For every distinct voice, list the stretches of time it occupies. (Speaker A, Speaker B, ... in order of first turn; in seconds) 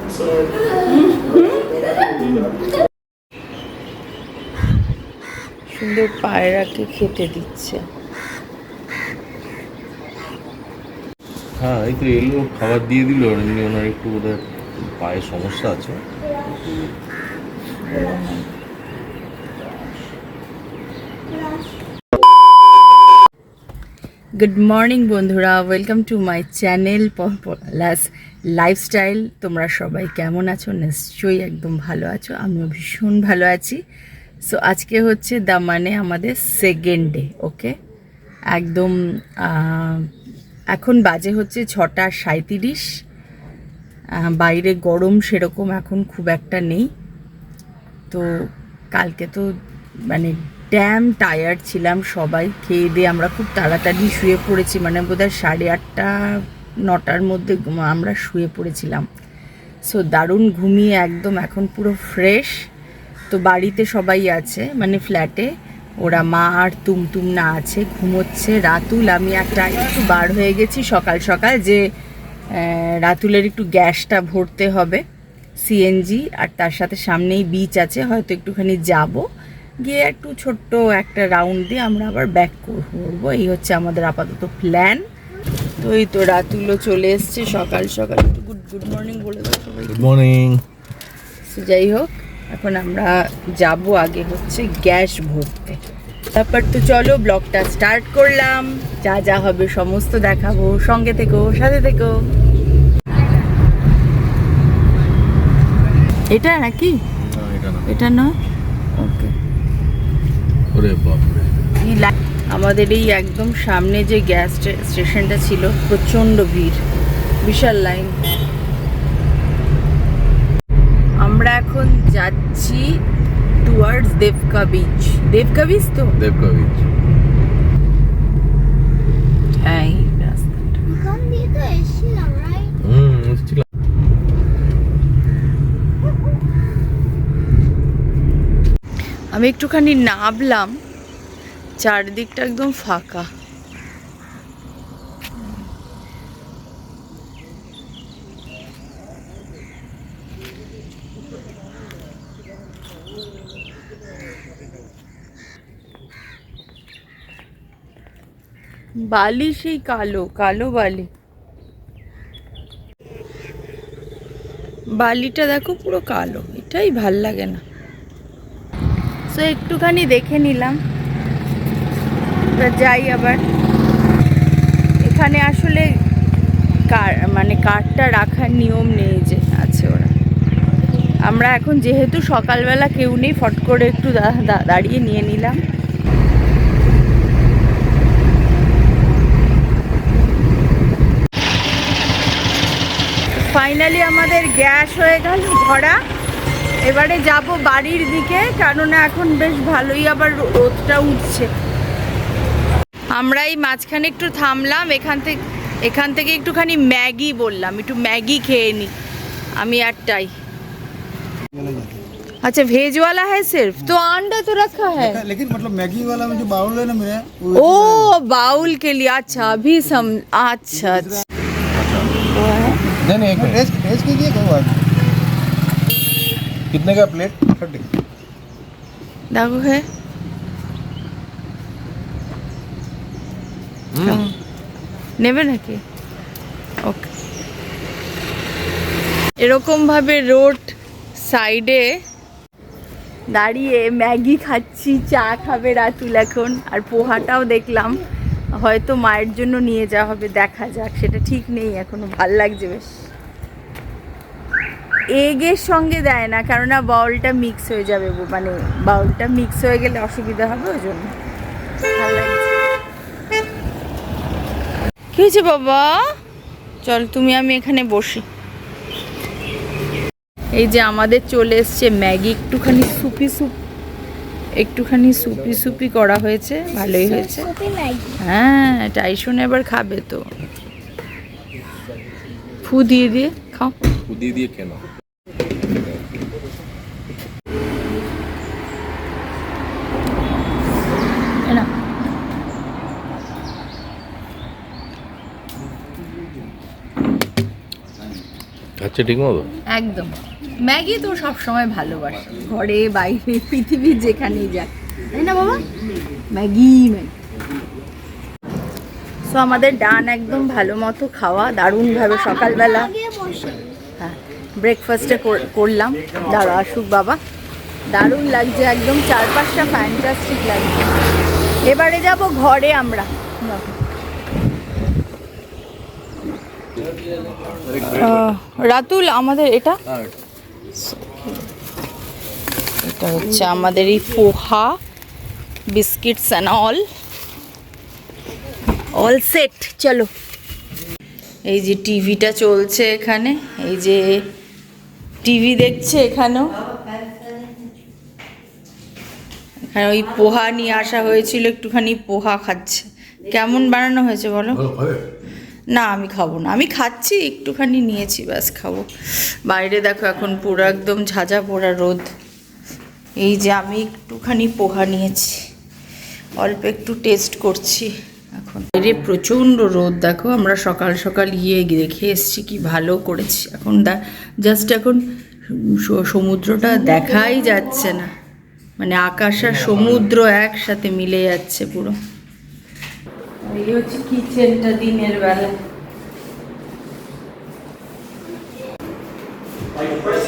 Speaker A: 0.8-2.6, 5.7-7.8, 17.8-18.5, 24.4-33.8, 34.5-37.7, 38.5-40.1, 40.7-42.9, 44.2-46.9, 48.9-49.5, 50.1-59.1, 59.9-62.6, 63.3-71.8, 72.5-75.0, 75.6-79.2, 79.8-85.0, 85.8-90.1, 91.5-95.8, 96.3-102.1, 106.3-107.0, 107.9-108.3, 109.0-109.3, 111.8-116.8, 117.4-118.2, 121.2-122.9, 123.6-126.2, 129.6-130.9, 139.3-140.8, 141.8-143.3, 159.0-161.1, 165.0-167.6, 169.3-170.8, 172.5-173.4, 175.0-175.9, 176.9-180.1, 181.3-185.6, 193.3-196.0, 196.8-201.5, 203.1-208.9, 209.6-210.3, 212.4-215.3, 217.5-221.2, 222.2-222.8, 229.3-229.8, 234.0-234.3, 235.2-235.8, 236.8-237.1, 239.4-241.9, 243.3-248.0, 248.6-252.9, 255.2-261.2, 261.9-262.5, 265.1-266.0, 266.8-268.3, 270.6-273.6, 274.6-277.5, 278.2-280.2, 282.6-283.7, 291.5-291.7, 299.7-305.7, 306.3-307.1, 309.3-313.1, 314.0-317.2, 317.9-320.9, 321.6-323.8, 327.9-329.8, 330.7-331.4, 332.8-334.8, 335.7-336.8, 338.9-340.1, 341.5-344.1, 345.2-346.7, 349.6-354.6, 355.7-362.1, 363.2-365.4, 366.4-378.1, 378.8-382.0, 383.4-385.6
Speaker B: 11.6-16.0, 89.9-90.6, 107.2-107.9, 110.7-111.7, 126.2-126.8, 132.8-133.6, 221.7-222.1, 223.0-223.7, 226.7-227.5, 233.9-234.2, 284.1-284.8, 298.8-299.5, 327.7-328.2, 354.6-355.0
Speaker C: 130.9-132.7, 277.6-278.1, 313.1-313.6
Speaker D: 211.6-212.0, 215.3-217.5, 223.5-224.8